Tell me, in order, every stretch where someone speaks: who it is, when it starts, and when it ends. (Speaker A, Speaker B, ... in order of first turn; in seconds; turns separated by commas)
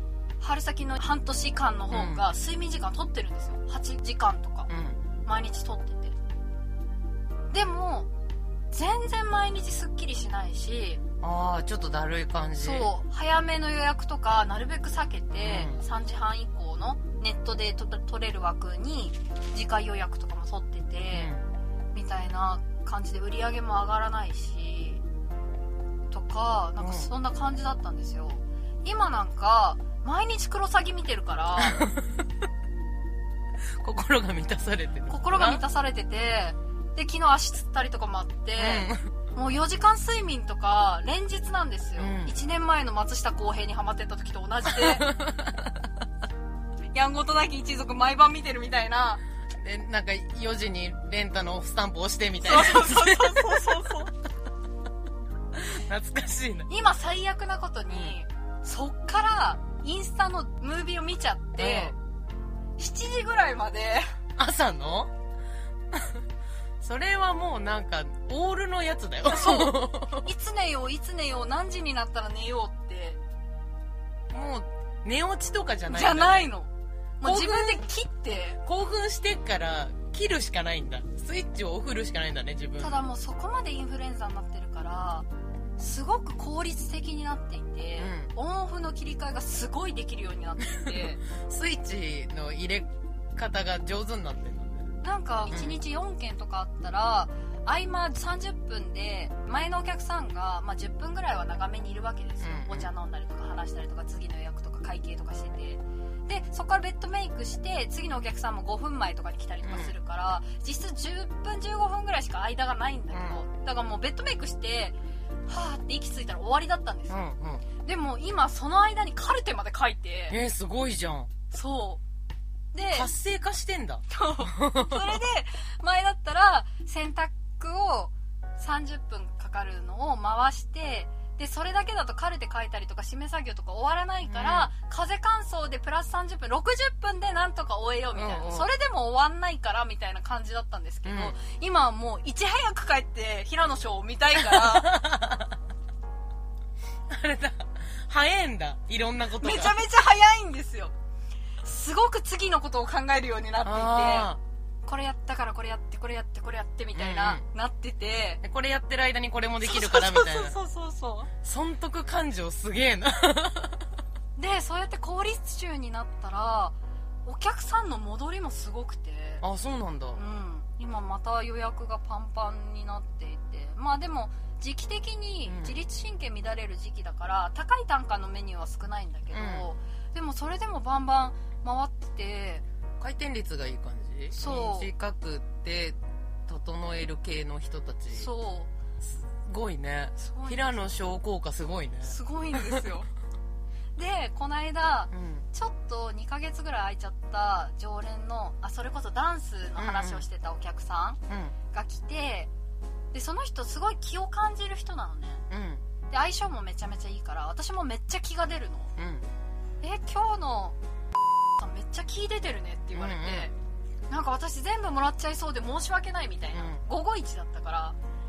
Speaker A: 0.4-4.7, Speaker B: 1.9-2.3, Speaker B: 4.7-5.0, Speaker A: 5.3-6.2, Speaker A: 7.5-8.1, Speaker A: 8.7-11.0, Speaker B: 11.2-12.9, Speaker A: 12.6-21.3, Speaker B: 15.4-15.8, Speaker B: 21.1-21.5, Speaker A: 21.9-25.0, Speaker A: 26.1-31.9, Speaker B: 26.8-27.1, Speaker B: 31.6-32.2, Speaker B: 33.8-35.6, Speaker A: 35.1-45.1, Speaker B: 38.6-39.1, Speaker B: 42.0-42.4, Speaker B: 44.7-45.9, Speaker A: 46.9-49.2, Speaker B: 49.6-54.0, Speaker A: 52.4-54.1, Speaker B: 55.5-56.7, Speaker A: 56.7-62.0, Speaker B: 57.9-58.2, Speaker B: 61.6-62.0, Speaker A: 62.8-64.1, Speaker B: 64.4-65.1, Speaker B: 65.9-66.2, Speaker B: 66.8-70.3, Speaker A: 69.3-73.2, Speaker B: 74.3-76.5, Speaker A: 75.9-76.7, Speaker A: 77.2-78.6, Speaker B: 77.2-77.8, Speaker B: 78.6-83.0, Speaker A: 82.8-91.2, Speaker B: 88.0-88.3, Speaker B: 90.7-94.9, Speaker A: 95.0-115.0, Speaker B: 95.5-95.8, Speaker B: 102.4-102.9, Speaker B: 109.6-109.9, Speaker B: 113.1-113.4, Speaker A: 115.5-117.3, Speaker B: 117.1-117.7, Speaker A: 117.8-120.4, Speaker B: 120.3-121.3, Speaker A: 121.5-122.0, Speaker A: 122.7-123.1, Speaker B: 122.9-125.2, Speaker A: 124.1-145.0, Speaker B: 134.2-134.7, Speaker B: 138.2-138.7, Speaker B: 141.1-141.3, Speaker B: 144.3-145.6, Speaker B: 147.1-149.8, Speaker A: 149.4-150.9, Speaker A: 151.6-154.3, Speaker B: 153.6-154.4, Speaker A: 154.9-158.4, Speaker B: 157.0-157.4, Speaker B: 158.4-160.6, Speaker A: 159.6-161.3, Speaker B: 161.4-163.9, Speaker A: 164.4-169.4, Speaker B: 169.4-170.2, Speaker A: 170.2-182.6, Speaker B: 175.5-175.8, Speaker B: 179.3-179.7, Speaker B: 183.0-188.3, Speaker A: 184.3-184.9, Speaker A: 188.1-188.7, Speaker B: 189.0-192.9, Speaker A: 190.2-190.9, Speaker A: 192.0-193.1, Speaker A: 194.0-201.2, Speaker B: 195.1-195.5, Speaker B: 199.8-200.2, Speaker B: 201.3-201.6, Speaker A: 201.7-202.5, Speaker A: 203.1-205.4, Speaker B: 205.5-205.8, Speaker A: 206.1-208.9, Speaker B: 209.0-209.3, Speaker A: 209.8-210.8, Speaker A: 211.6-213.5, Speaker B: 212.9-213.5, Speaker A: 214.1-218.0, Speaker B: 216.5-216.8